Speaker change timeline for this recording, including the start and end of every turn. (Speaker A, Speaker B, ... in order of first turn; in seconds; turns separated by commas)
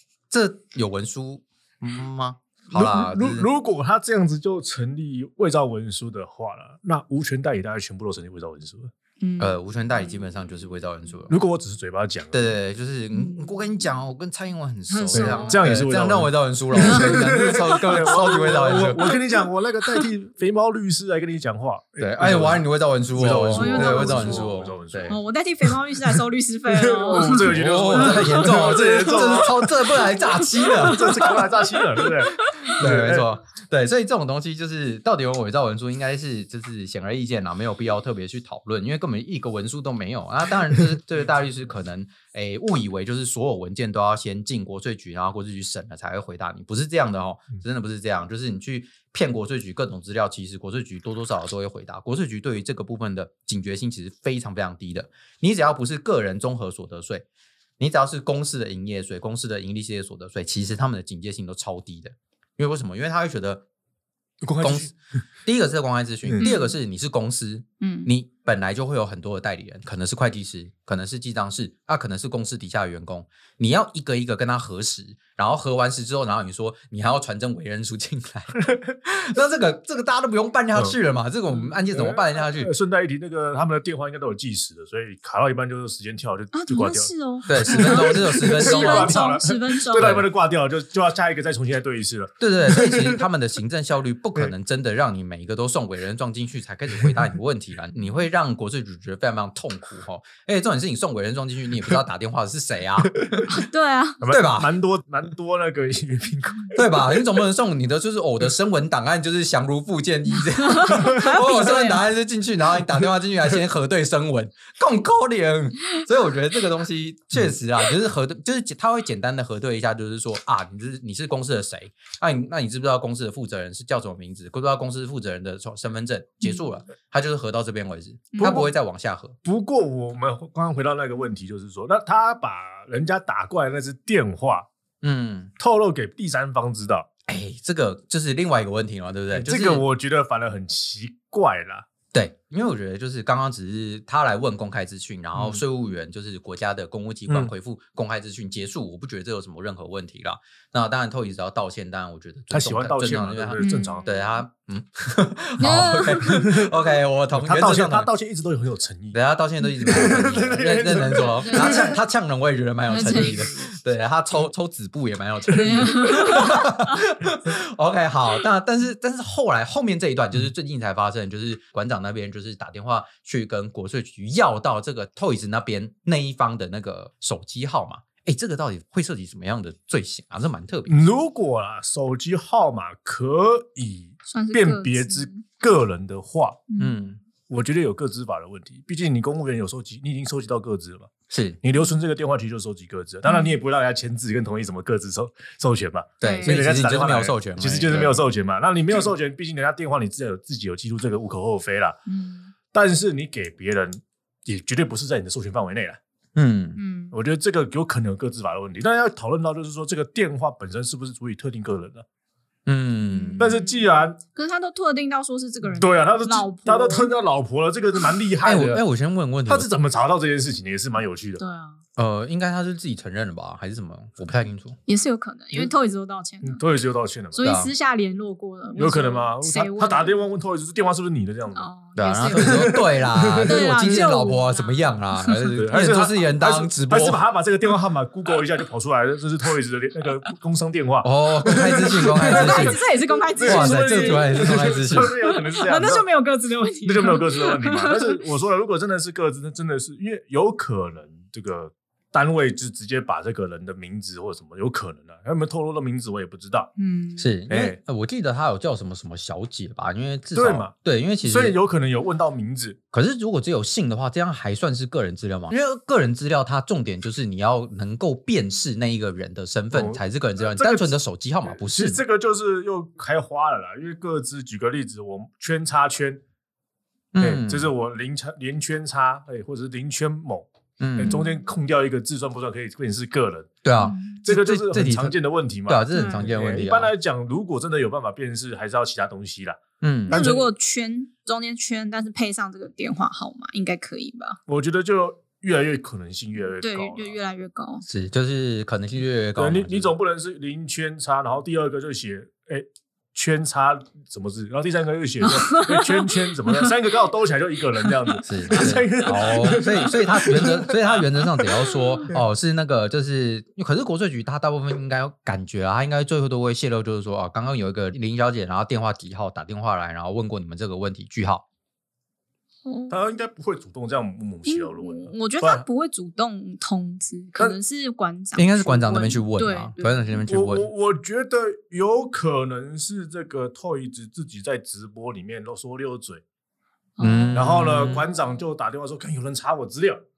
Speaker A: 0.3-3.5, Speaker B: 2.7-8.9, Speaker C: 9.2-9.6, Speaker A: 9.4-11.4, Speaker B: 11.3-12.5, Speaker A: 12.3-19.0, Speaker C: 13.1-13.8, Speaker C: 14.9-15.6, Speaker B: 15.1-25.2, Speaker C: 16.7-19.2, Speaker A: 22.0-25.2, Speaker C: 23.5-24.6, Speaker C: 25.1-31.4, Speaker B: 26.7-29.5, Speaker A: 27.4-31.4, Speaker B: 30.8-33.3, Speaker C: 31.9-32.7, Speaker A: 32.7-57.3, Speaker A: 57.8-63.6, Speaker B: 64.4-64.9, Speaker A: 64.6-64.9, Speaker A: 65.4-82.7, Speaker C: 66.4-66.7, Speaker C: 67.8-68.1, Speaker B: 81.9-93.2, Speaker C: 86.5-90.2, Speaker A: 87.5-89.3, Speaker A: 90.0-90.2, Speaker A: 92.4-103.2, Speaker C: 103.5-104.2, Speaker B: 104.2-107.2, Speaker A: 104.3-104.7, Speaker A: 106.7-129.3, Speaker C: 110.4-112.0, Speaker B: 128.4-128.7, Speaker B: 129.4-134.7, Speaker A: 135.0-135.5, Speaker B: 135.6-137.1, Speaker A: 137.3-139.8, Speaker B: 139.3-141.8, Speaker A: 142.1-158.1, Speaker B: 145.3-145.6, Speaker B: 152.5-154.1, Speaker C: 153.6-154.3, Speaker C: 155.6-156.5, Speaker B: 156.3-156.8, Speaker B: 157.3-159.2, Speaker A: 159.1-180.9, Speaker B: 159.8-162.0, Speaker C: 161.4-161.9, Speaker C: 162.9-163.6, Speaker B: 163.1-163.5, Speaker C: 165.5-166.9, Speaker B: 180.9-186.6, Speaker C: 184.3-185.4, Speaker C: 186.7-186.9, Speaker A: 186.8-187.2, Speaker B: 187.5-191.1, Speaker A: 191.3-191.6, Speaker B: 191.6-202.0, Speaker C: 193.2-193.5, Speaker A: 196.2-198.2, Speaker C: 196.2-196.6, Speaker C: 202.1-202.5, Speaker B: 202.7-206.0, Speaker A: 206.3-206.8, Speaker C: 206.8-207.1, Speaker B: 207.1-212.0, Speaker A: 212.7-213.5, Speaker C: 213.1-213.8, Speaker B: 213.4-214.2, Speaker C: 214.3-217.1, Speaker B: 215.6-218.8, Speaker A: 218.4-219.7, Speaker B: 219.5-221.4, Speaker C: 221.4-221.8, Speaker A: 221.9-224.8, Speaker C: 224.9-226.6, Speaker B: 226.4-227.4, Speaker C: 227.3-230.2, Speaker A: 227.4-227.7, Speaker B: 228.8-231.7, Speaker C: 231.5-235.5, Speaker A: 231.9-237.2, Speaker B: 232.3-233.9, Speaker B: 235.6-246.0, Speaker A: 241.0-242.8, Speaker C: 242.2-248.2, Speaker A: 243.4-245.1, Speaker B: 246.8-256.7, Speaker C: 256.8-257.3, Speaker A: 257.2-261.6, Speaker B: 257.5-257.8, Speaker B: 260.3-262.8, Speaker A: 262.9-272.0, Speaker B: 269.7-270.9, Speaker B: 271.4-276.2, Speaker A: 277.1-277.7, Speaker B: 277.2-283.5, Speaker A: 280.8-281.2, Speaker C: 281.0-281.3, Speaker A: 283.6-286.9, Speaker C: 283.8-284.2, Speaker B: 284.2-289.6, Speaker C: 285.9-286.3, Speaker A: 289.8-290.2, Speaker C: 290.1-294.4, Speaker B: 290.1-290.5, Speaker B: 294.5-297.2, Speaker C: 296.6-297.8, Speaker A: 297.9-299.9, Speaker B: 299.4-311.4, Speaker C: 305.2-306.7, Speaker A: 308.2-321.4, Speaker C: 309.3-309.9, Speaker C: 322.6-323.0, Speaker B: 322.9-325.6, Speaker C: 324.4-330.3, Speaker A: 328.4-330.7, Speaker B: 330.3-336.2, Speaker C: 337.0-338.0, Speaker A: 337.0-338.0, Speaker B: 337.3-340.0